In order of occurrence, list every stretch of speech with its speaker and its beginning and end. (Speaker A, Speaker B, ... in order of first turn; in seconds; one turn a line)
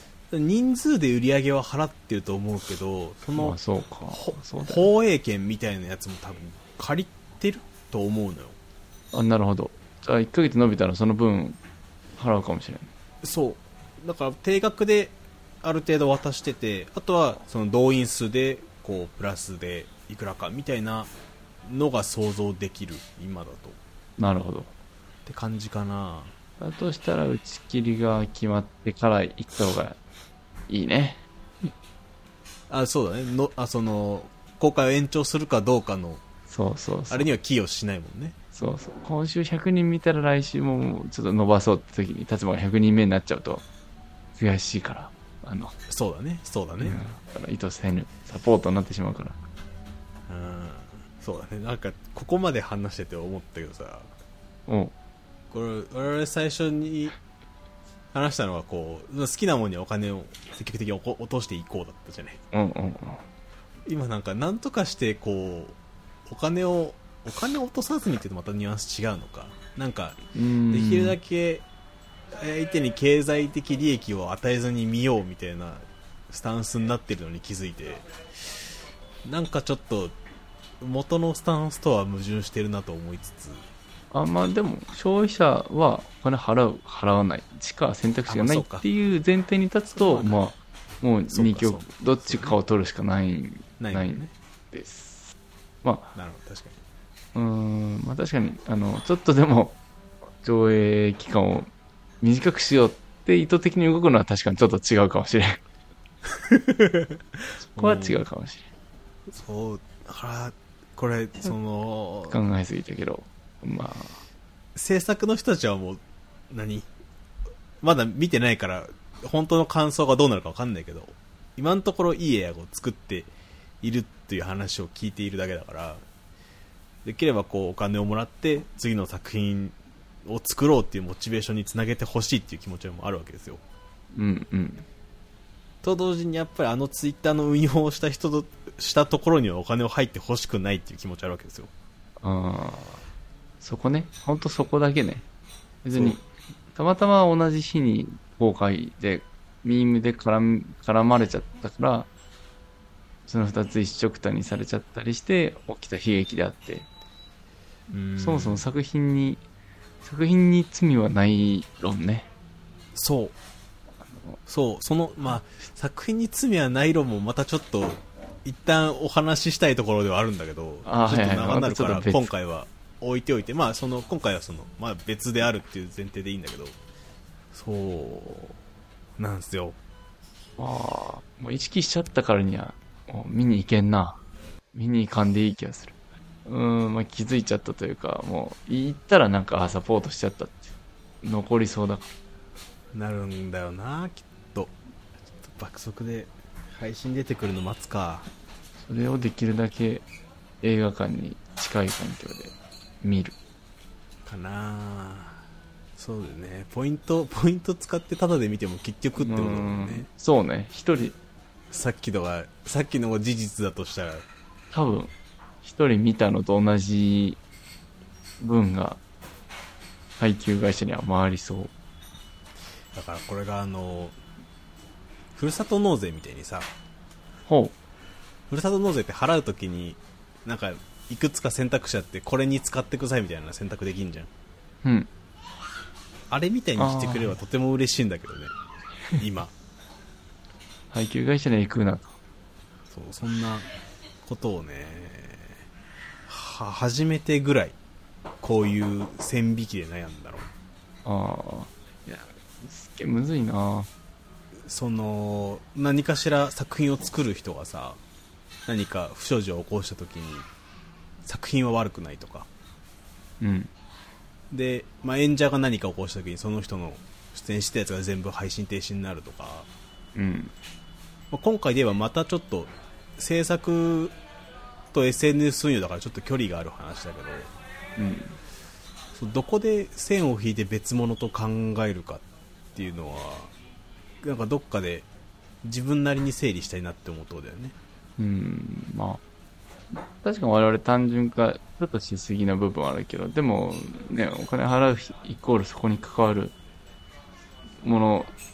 Speaker A: 0.3-3.6
Speaker B: 3.4-4.9
Speaker A: 4.1-8.6
Speaker B: 9.1-11.6
Speaker B: 12.2-12.9
Speaker A: 13.2-21.1
Speaker A: 21.6-23.8
Speaker B: 24.2-24.7
Speaker A: 25.2-26.3
Speaker B: 26.6-30.0
Speaker B: 30.7-31.7
Speaker A: 32.7-36.2
Speaker B: 36.5-37.3
Speaker A: 37.1-38.4
Speaker B: 38.5-43.6
Speaker B: 44.4-45.7
Speaker A: 45.9-47.0
Speaker B: 46.8-49.4
Speaker A: 50.3-54.1
Speaker B: 54.7-54.9
Speaker A: 55.5-57.1
Speaker A: 58.1-62.4
Speaker B: 62.5-63.2
Speaker A: 63.9-71.6
Speaker B: 70.3-71.2
Speaker A: 72.3-78.1
Speaker A: 79.2-80.2
Speaker A: 80.8-83.7
Speaker B: 84.1-96.1
Speaker A: 88.3-88.8
Speaker A: 90.0-90.4
Speaker A: 91.3-92.6
Speaker A: 93.8-94.3
Speaker A: 96.1-96.8
Speaker B: 97.3-99.8
Speaker B: 100.4-101.7
Speaker B: 102.2-105.6
Speaker A: 106.5-107.2
Speaker A: 107.7-108.2
Speaker B: 107.7-108.7
Speaker A: 109.3-112.4
Speaker B: 112.3-114.2
Speaker A: 114.8-116.9
Speaker A: 117.8-123.3
Speaker A: 123.8-126.0
Speaker A: 127.0-133.6
Speaker B: 134.1-134.8
Speaker A: 135.8-141.7
Speaker B: 142.2-143.0
Speaker B: 143.6-145.2
Speaker B: 145.8-152.1
Speaker A: 145.9-146.2
Speaker B: 153.2-156.9
Speaker A: 157.9-158.7
Speaker B: 158.2-159.4
Speaker B: 160.0-162.3
Speaker A: 162.9-163.3
Speaker B: 164.1-164.4
Speaker A: 164.5-176.8
Speaker B: 170.8-172.3
Speaker A: 177.5-178.6
Speaker A: 179.2-179.8
Speaker B: 180.6-184.2
Speaker B: 184.7-192.1
Speaker A: 192.9-194.7
Speaker A: 195.4-198.3
Speaker B: 198.8-200.0
Speaker B: 200.6-203.3
Speaker A: 204.2-205.4
Speaker A: 205.9-210.1
Speaker B: 209.2-211.2
Speaker A: 211.7-214.2
Speaker B: 214.7-217.4
Speaker B: 218.4-219.0
Speaker B: 220.2-221.7
Speaker A: 222.9-224.2
Speaker A: 225.3-226.7
Speaker B: 227.5-227.7
Speaker A: 228.5-234.3
Speaker B: 234.8-235.1
Speaker A: 236.3-238.5
Speaker B: 236.8-237.3
Speaker A: 239.1-239.5
Speaker B: 240.9-242.1
Speaker A: 242.9-243.7
Speaker A: 244.2-245.6
Speaker A: 246.3-247.8
Speaker A: 248.4-250.5
Speaker B: 251.0-253.9
Speaker A: 254.7-258.0
Speaker A: 258.6-260.5
Speaker A: 261.2-262.5
Speaker B: 263.4-263.7
Speaker A: 264.5-269.7
Speaker B: 270.1-270.5
Speaker A: 271.3-274.1
Speaker A: 274.9-277.5
Speaker B: 277.9-278.4
Speaker A: 279.1-283.5
Speaker A: 284.2-285.1
Speaker A: 285.6-287.7
Speaker B: 288.2-289.2
Speaker B: 289.9-296.5
Speaker B: 297.8-298.3